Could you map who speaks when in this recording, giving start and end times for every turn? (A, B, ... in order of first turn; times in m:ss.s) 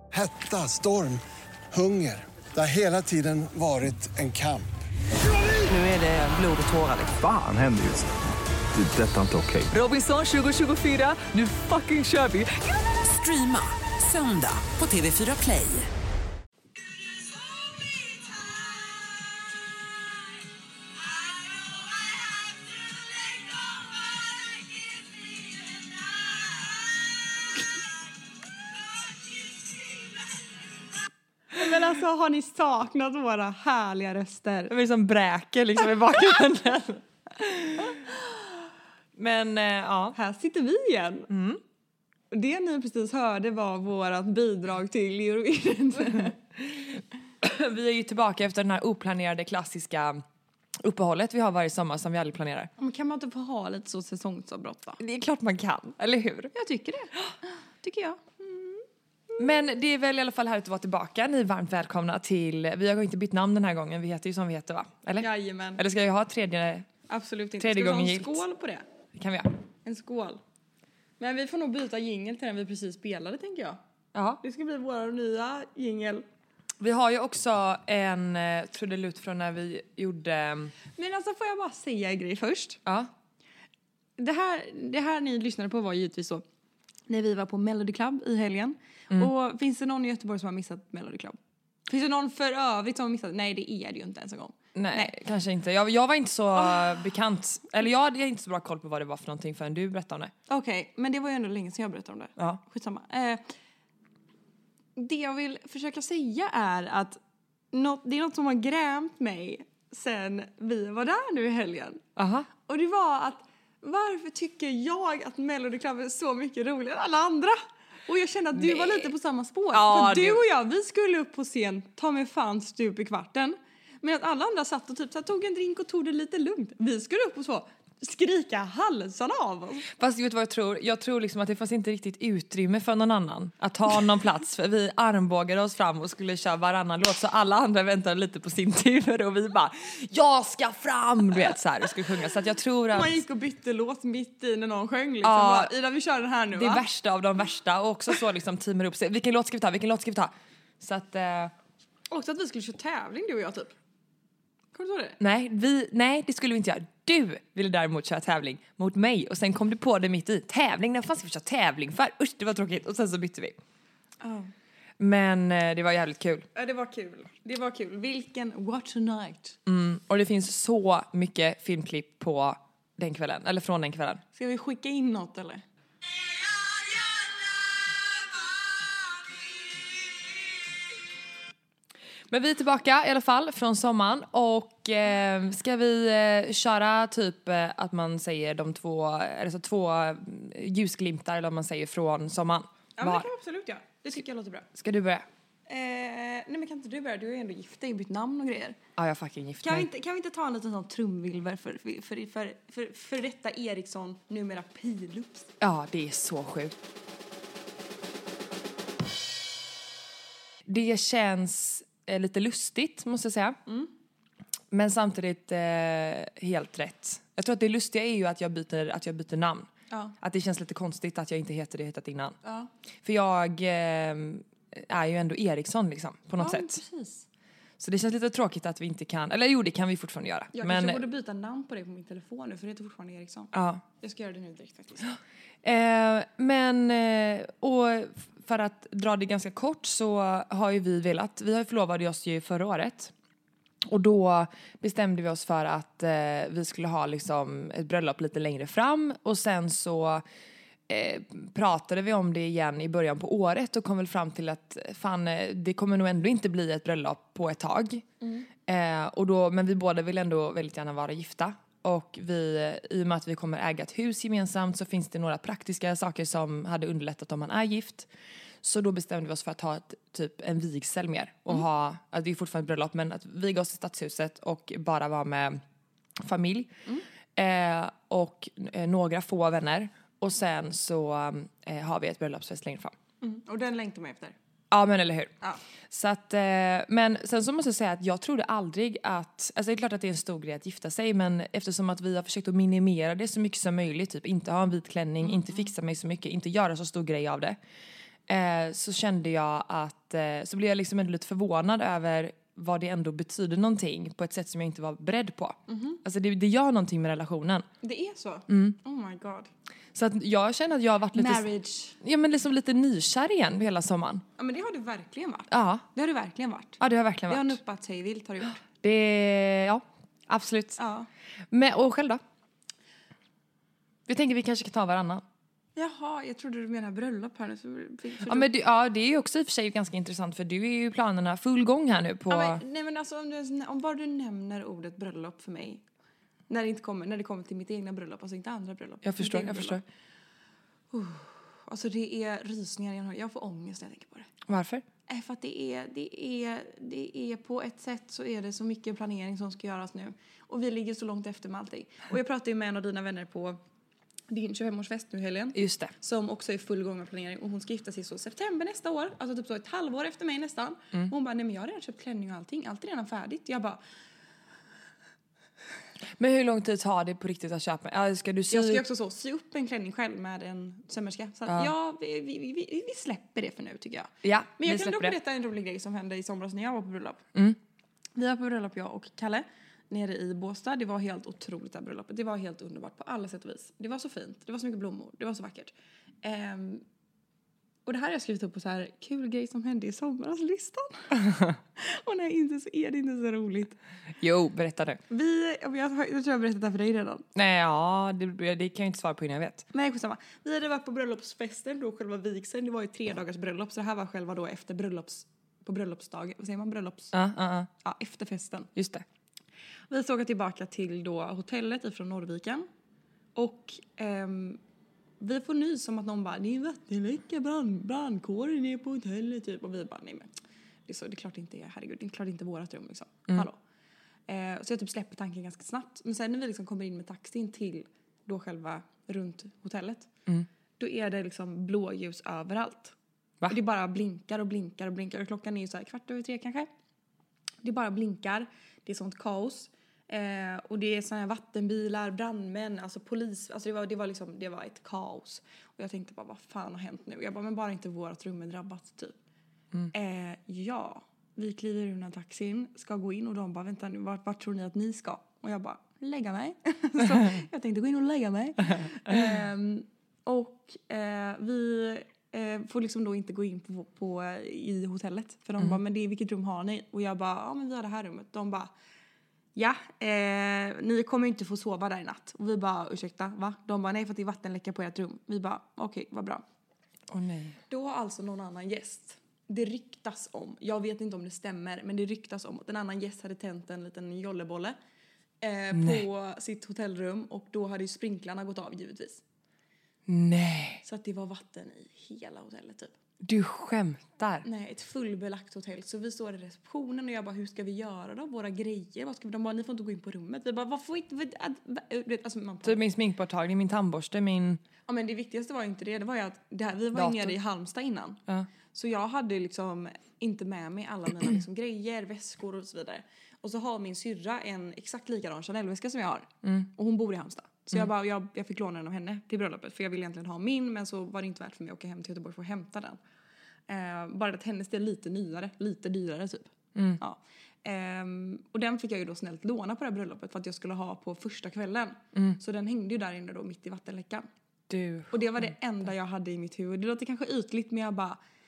0:00.1-0:04.7 A
0:05.3-0:07.2 B
0:07.1-0:08.1 C
0:08.7-0:09.7 C
0:09.7-0:15.9 B
0:31.5-0:34.7 D
0:34.7-0:38.0 E
0:39.2-0:40.2 E
0:40.2-0:41.3 D
0:41.3-0:41.6 E
0:42.3-0:46.4 D
0:46.6-0:50.2 E
0:50.8-0:52.7 E
0:52.8-0:55.0 D
0:55.0-0:56.5 E
0:56.5-0:58.8 D
0:59.4-1:06.9 E
1:05.2-1:05.8 D
1:07.1-1:08.8 D
1:07.6-1:08.4 E
1:09.1-1:09.5 E
1:09.8-1:10.4 D
1:11.2-1:13.8 D
1:14.1-1:14.4 E
1:14.4-1:16.2 D
1:16.8-1:20.7 E
1:21.0-1:22.8 D
1:22.8-1:23.1 E
1:24.2-1:26.4 D
1:27.1-1:35.1 D
1:34.7-1:40.3 E
1:40.5-1:43.4 D
1:45.0-1:47.2 D
1:47.7-1:52.0 D
1:52.2-1:52.5 E
1:52.7-2:09.9 D
1:58.6-1:59.1 E
1:59.7-2:00.4 E
2:09.9-2:23.2 E
2:22.9-2:26.8 D
2:25.2-2:25.7 E
2:26.5-2:31.5 E
2:32.1-2:33.8 D
2:34.7-2:35.2 D
2:35.2-2:43.6 E
2:44.2-2:44.5 D
2:45.0-2:46.5 E
2:46.5-2:49.6 D
2:49.7-2:54.2 E
2:54.3-2:55.6 D
3:02.3-3:13.3 E
3:13.0-3:14.7 D
3:14.8-3:15.3 E
3:15.7-3:18.8 D
3:19.0-3:19.9 E
3:19.6-3:25.5 D
3:25.6-3:26.7 E
3:30.7-3:33.6 E
3:33.7-3:33.9 D
3:34.7-3:39.7 E
3:40.2-3:42.4 E
3:42.4-3:42.7 D
3:43.0-3:46.8 E
3:46.4-3:47.2 D
3:47.8-3:51.0 E
3:50.5-3:55.2 D
3:53.5-3:53.8 E
3:55.6-4:03.1 E
4:03.8-4:10.2 E
4:10.9-4:18.1 E
4:18.2-4:18.5 D
4:18.7-4:28.1 E
4:28.6-4:35.6 E
4:36.2-4:36.7 E
4:37.4-4:42.9 E
4:43.2-4:44.4 D
4:44.7-4:45.3 E
4:45.9-4:57.6 E
4:55.2-4:55.6 D
4:58.3-5:07.6 E
5:05.7-5:06.0 D
5:07.8-5:09.5 D
5:08.5-5:08.8 E
5:09.9-5:11.5 E
5:11.1-5:12.0 D
5:12.0-5:14.2 E
5:14.4-5:18.6 D
5:15.5-5:15.9 E
5:16.8-5:17.6 E
5:18.6-5:20.8 E
5:20.8-5:21.1 D
5:21.5-5:22.2 E
5:24.1-5:25.2 E
5:25.8-5:28.5 D
5:28.2-5:32.6 E
5:32.3-5:35.8 D
5:36.5-5:39.8 D
5:39.0-5:39.8 E
5:40.9-5:44.3 D
5:44.5-5:44.8 E
5:45.1-5:53.6 D
5:54.3-6:03.8 D
5:55.6-5:55.9 E
6:06.2-6:08.8 E
6:08.5-6:17.2 D
6:14.2-6:15.2 E
6:18.2-6:26.8 D
6:27.9-6:31.1 D
6:31.2-6:31.6 E
6:31.8-6:33.8 D
6:34.2-6:35.0 E
6:35.1-6:37.2 D
6:37.3-6:39.6 E
6:39.7-6:47.1 D
6:47.1-6:47.7 E
6:47.8-6:48.7 D
6:48.8-6:49.0 E
6:49.9-6:52.7 D
6:53.3-6:54.6 D
6:55.2-7:00.3 D
7:00.9-7:03.6 D
7:04.3-7:10.1 D
7:10.8-7:12.9 D
7:13.5-7:16.7 D
7:17.6-7:29.1 D
7:29.9-7:48.7 D
7:49.6-7:56.4 D
7:57.1-7:57.6 E
7:57.7-8:04.8 D
8:05.4-8:09.2 D
8:05.7-8:06.0 E
8:10.1-8:10.8 E
8:10.8-8:12.9 D
8:13.2-8:14.4 E
8:14.4-8:22.8 D
8:22.6-8:24.6 E
8:24.9-8:28.2 D
8:26.9-8:27.3 E
8:28.7-8:43.0 D
8:43.7-8:54.3 D
8:46.8-8:47.0 E
8:54.7-8:55.5 E
8:55.1-8:58.2 D